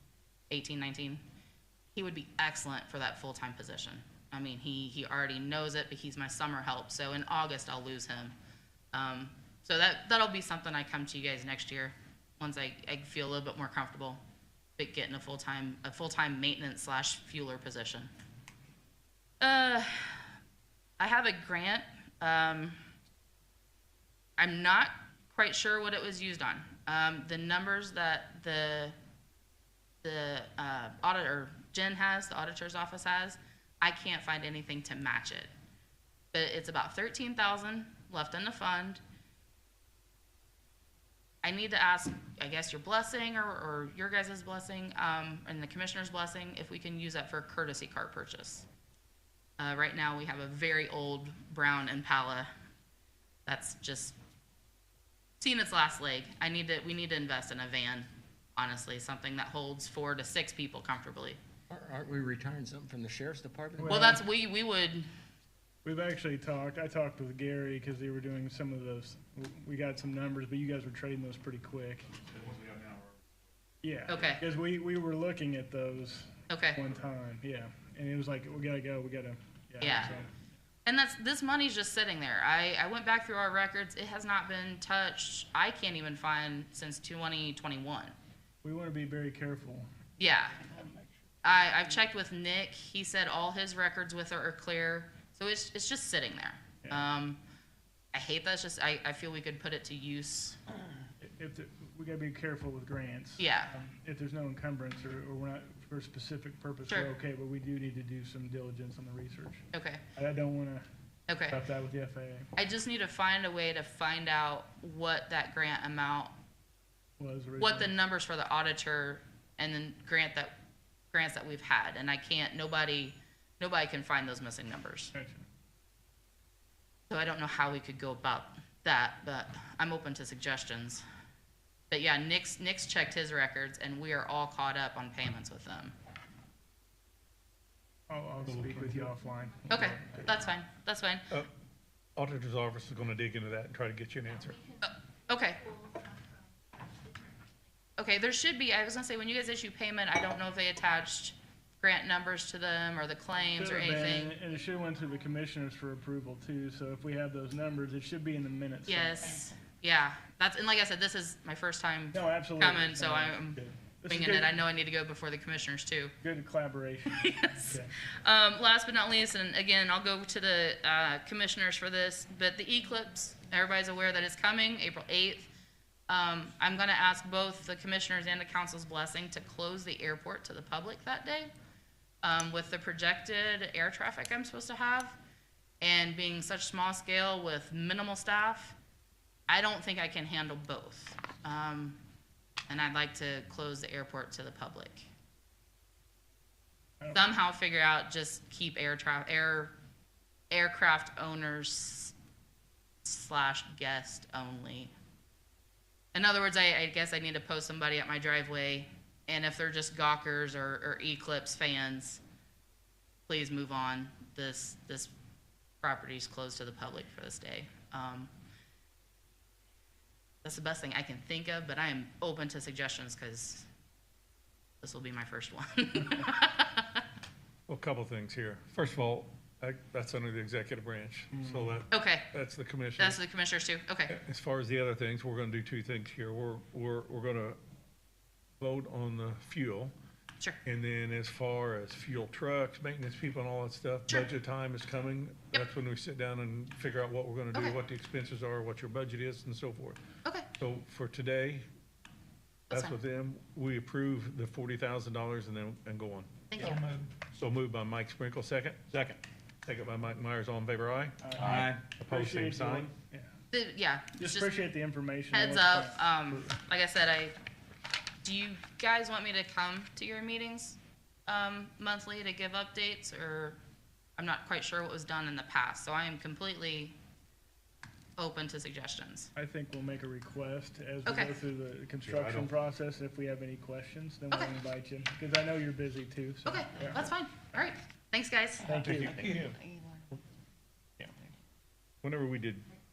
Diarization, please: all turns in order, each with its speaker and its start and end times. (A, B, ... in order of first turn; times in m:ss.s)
0:00.5-0:01.2 A
0:01.9-0:08.3 A
0:08.9-0:14.2 A
0:14.8-0:18.1 A
0:19.4-0:20.3 A
0:21.0-0:22.8 A
0:24.4-0:29.0 A
0:30.0-0:35.5 A
0:36.3-0:39.0 A
0:41.4-0:48.6 A
0:49.6-0:52.5 A
0:53.4-0:54.2 A
0:55.4-1:01.4 A
1:01.7-1:03.9 B
1:03.8-1:04.2 C
1:03.9-1:05.1 A
1:05.8-1:12.2 C
1:12.5-1:12.9 D
1:13.8-1:20.3 C
1:14.1-1:14.4 A
1:16.5-1:16.8 A
1:19.8-1:20.1 A
1:20.8-1:28.1 A
1:28.6-1:29.9 C
1:30.2-1:30.8 A
1:31.4-1:37.4 A
1:38.1-1:40.6 A
1:41.2-1:50.8 C
1:43.4-1:43.7 A
1:49.7-1:50.0 A
1:51.3-1:51.6 A
1:51.5-1:52.5 C
1:52.6-1:56.3 A
1:57.2-1:57.9 C
1:57.6-2:00.5 A
2:01.1-2:05.1 A
2:05.1-2:05.4 C
2:07.1-2:11.0 A
2:11.9-2:15.9 A
2:18.1-2:20.3 C
2:18.5-2:19.1 D
2:19.7-2:21.3 A
2:22.2-2:24.6 D
2:24.8-2:25.8 A
2:28.0-2:34.4 A
2:33.6-2:39.3 C
2:38.9-2:46.1 A
2:42.1-2:44.5 C
2:46.2-2:47.9 C
2:47.1-2:55.5 A
2:56.1-3:01.5 A
3:02.2-3:05.2 A
3:05.8-3:08.7 A
3:09.5-3:12.0 A
3:12.7-3:15.0 A
3:17.1-3:19.7 A
3:20.5-3:22.1 A
3:23.0-3:24.9 A
3:26.1-3:32.2 A
3:33.3-3:35.1 A
3:35.8-3:38.3 A
3:40.4-3:43.7 A
3:44.8-3:47.0 A
3:47.7-3:53.2 D
3:51.9-3:52.3 A
3:53.0-3:54.2 A
3:54.1-3:57.6 D
3:58.6-3:59.9 D
4:00.6-4:10.0 D
4:07.5-4:07.8 A
4:10.6-4:11.6 D
4:12.7-4:13.0 A
4:12.7-4:16.8 D
4:16.5-4:16.8 A
4:17.3-4:19.1 D
4:19.6-4:22.9 D
4:21.2-4:23.3 C
4:21.4-4:21.8 B
4:23.5-4:24.5 A
4:24.2-4:26.6 C
4:25.3-4:27.3 A
4:28.2-4:33.6 A
4:34.2-4:36.9 A
4:38.2-4:39.3 A
4:39.4-4:47.1 C
4:41.0-4:41.4 A
4:42.0-4:42.5 D
4:46.4-4:48.8 A
4:48.6-4:49.5 C
4:48.8-4:49.6 D
4:52.0-4:52.6 D